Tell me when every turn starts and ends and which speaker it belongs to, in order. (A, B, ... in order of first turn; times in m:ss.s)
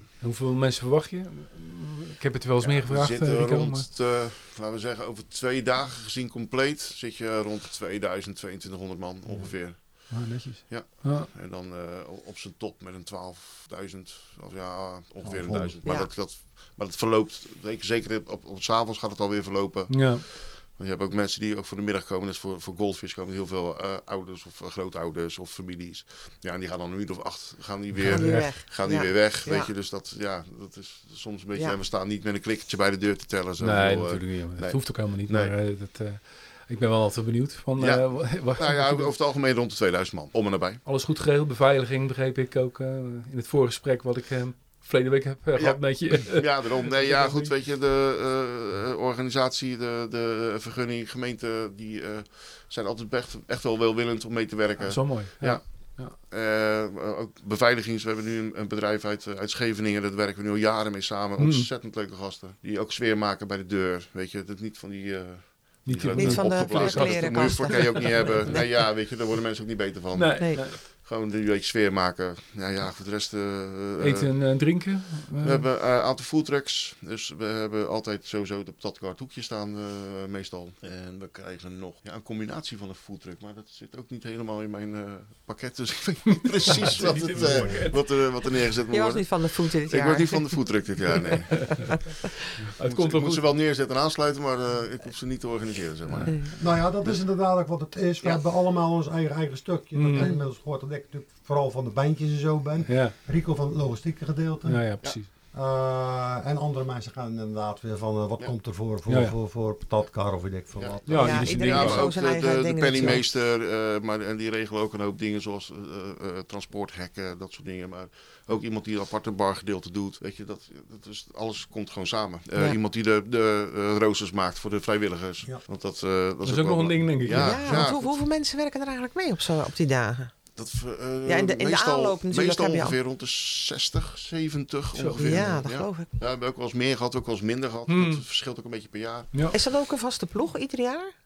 0:00.2-0:03.9 A
0:02.6-0:10.2 B
0:10.1-0:11.3 A
0:10.7-0:35.5 B
0:15.2-0:15.7 C
0:15.8-0:16.1 D
0:19.9-0:20.2 A
0:27.9-0:28.5 A
0:28.1-0:29.7 D
0:33.6-0:39.1 A
0:37.8-0:40.8 B
0:40.8-0:47.5 A
0:45.6-0:55.6 B
0:54.8-0:56.1 A
0:56.2-1:14.3 B
1:01.4-1:01.7 A
1:05.8-1:08.6 A
1:06.1-1:08.6 D
1:10.1-1:10.8 A
1:14.0-1:15.6 A
1:15.4-1:32.0 B
1:26.4-1:28.1 A
1:27.3-1:27.8 C
1:28.9-1:30.6 D
1:31.5-1:32.0 A
1:31.5-1:32.4 D
1:32.6-1:33.5 A
1:32.8-1:37.2 B
1:36.2-1:36.5 D
1:36.6-1:44.8 C
1:39.9-1:40.3 A
1:42.9-1:43.1 A
1:44.6-1:45.3 A
1:45.5-1:51.6 C
1:49.1-1:49.3 A
1:50.8-2:08.2 B
1:51.0-1:52.1 A
1:51.1-1:53.2 D
2:06.4-2:07.9 A
2:07.3-2:10.3 D
2:10.6-2:19.3 B
2:11.2-2:13.0 D
2:14.9-2:15.5 A
2:15.2-2:16.1 D
2:17.9-2:18.2 A
2:19.5-2:21.1 D